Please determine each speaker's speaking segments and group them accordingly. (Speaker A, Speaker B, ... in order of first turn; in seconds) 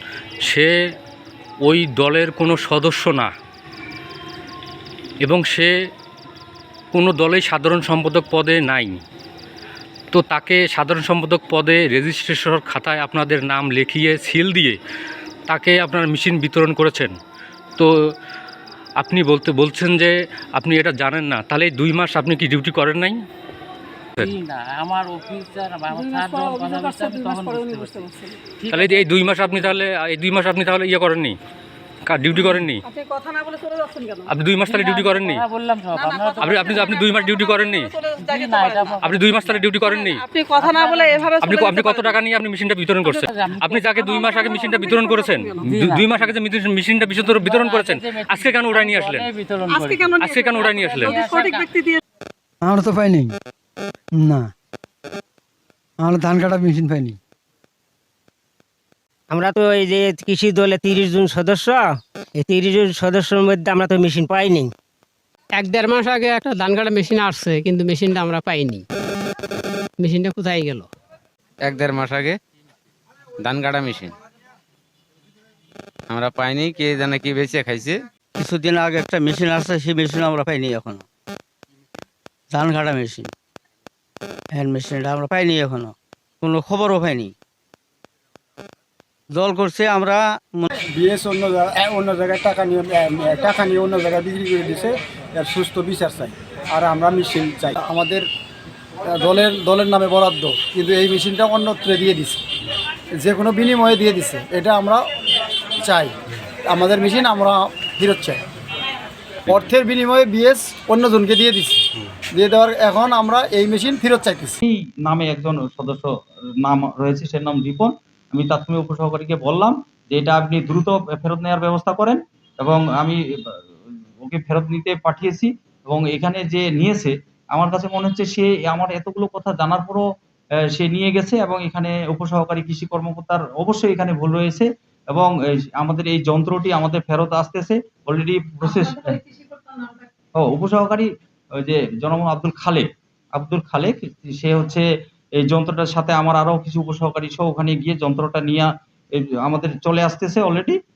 Speaker A: 0.5-0.7, 1.7-3.3, 5.2-5.7, 6.9-9.0, 10.1-14.8, 15.5-17.1, 19.0-23.2, 28.7-31.4, 32.1-32.8, 34.3-35.4, 36.4-37.9, 39.0-40.2, 41.4-49.3, 50.2-51.2
Speaker B: 24.2-29.8, 34.6-36.8, 38.1-39.8, 40.5-41.4, 43.1-44.9, 45.5-46.3, 47.1-51.7
Speaker C: 25.9-28.4, 32.8-34.3, 35.9-39.0, 39.8-42.2, 44.0-45.7, 49.7-50.5, 51.1-52.0, 138.6-140.1
Speaker D: 52.6-53.4, 54.1-54.5, 56.0-57.2
Speaker E: 59.3-64.7
Speaker F: 65.6-68.8, 70.0-70.9
Speaker G: 71.6-72.4, 73.4-74.1, 76.1-78.0
Speaker H: 78.4-81.0, 82.5-83.3, 84.5-87.3, 89.3-90.7
Speaker I: 91.0-98.3, 99.1-102.4, 103.2-105.0, 105.8-106.2, 106.7-108.4, 109.5-114.6
Speaker J: 114.6-116.1, 116.6-123.6, 124.2-130.1, 130.7-139.2, 140.4-141.1, 141.6-144.8, 145.4-150.8